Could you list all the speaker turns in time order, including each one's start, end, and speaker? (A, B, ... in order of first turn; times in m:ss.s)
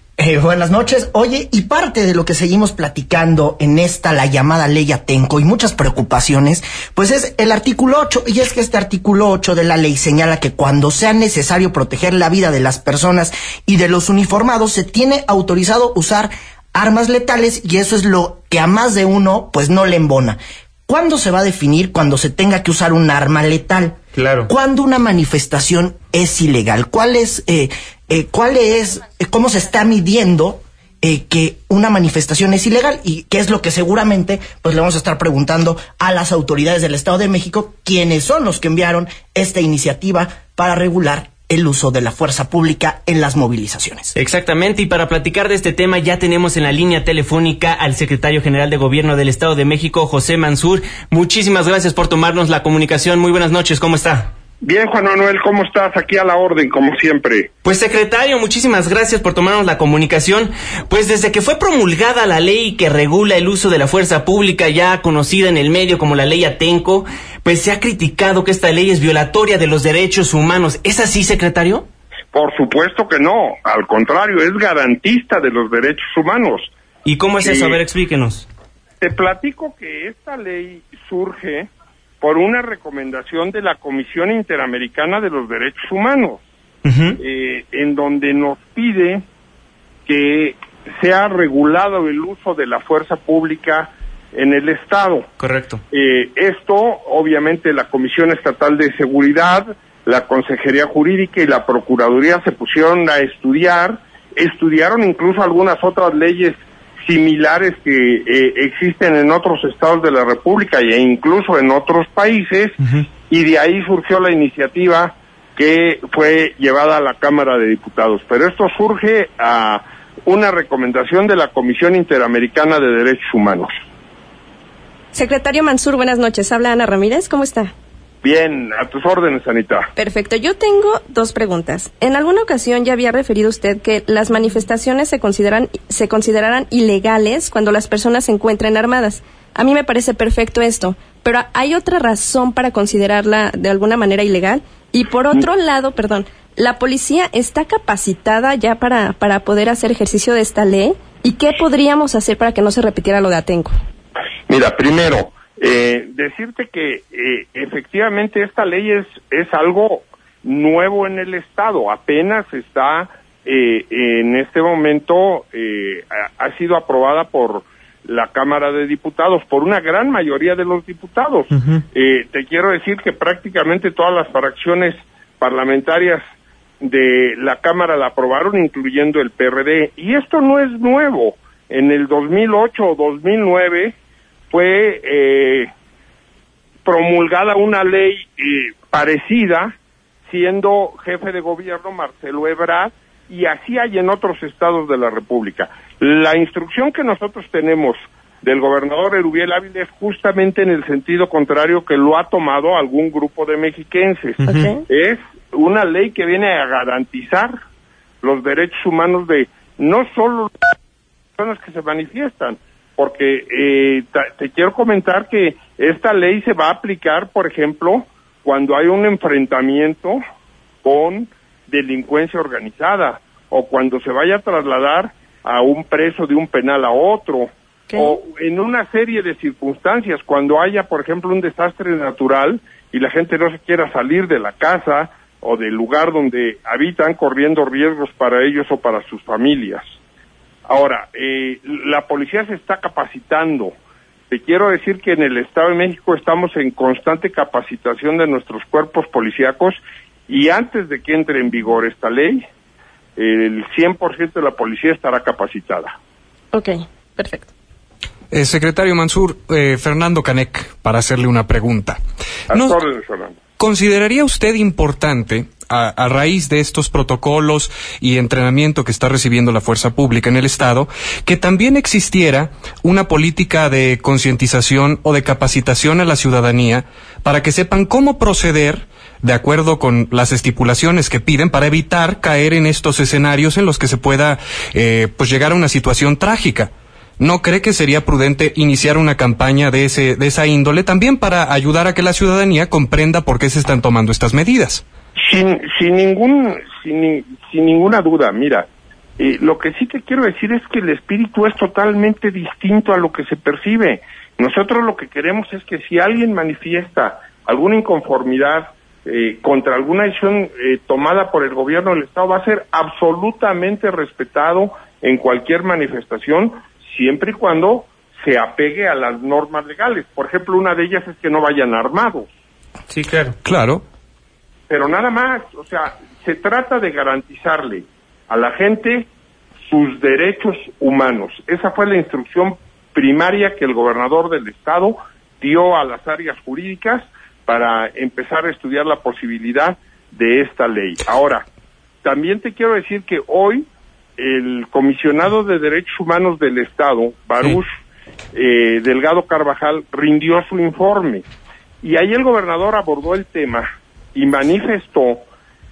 0:00.2-0:44.1 A
0:24.2-0:24.5 B
0:44.2-0:54.3 B
0:54.6-0:57.5 C
0:57.6-1:11.9 B
1:12.3-1:16.7 C
1:17.0-1:18.5 B
1:17.4-1:17.8 C
1:19.0-1:21.7 C
1:22.2-1:26.4 C
1:26.8-1:27.2 B
1:27.2-1:29.2 C
1:30.1-1:35.3 C
1:35.4-1:35.8 B
1:35.9-2:03.7 C
2:05.1-2:07.7 D
2:08.2-2:09.9 C
2:10.0-2:33.7 D
2:34.5-2:56.2 C
2:56.8-3:03.9 C
3:04.5-3:05.7 C
3:06.8-3:09.7 C
3:10.3-3:24.4 C
3:24.4-3:24.8 D
3:24.9-3:27.5 C
3:28.2-3:30.6 C
3:31.4-3:40.2 C
3:40.8-3:59.9 C
4:00.7-4:03.7 C
4:04.3-4:12.4 C
4:13.2-4:15.9 C
4:16.5-4:17.5 D
4:18.3-4:22.0 E
4:22.5-4:22.8 E
4:22.5-4:23.4 C
4:23.6-4:54.8 E
4:55.2-4:58.7 C
4:59.2-5:22.3 C
5:22.9-5:23.4 B
5:23.4-5:23.8 E
5:24.7-5:29.1 C
5:29.7-5:41.4 C
5:42.0-5:43.6 C
5:44.2-5:47.7 C
5:48.3-5:51.2 C
5:51.8-5:55.2 C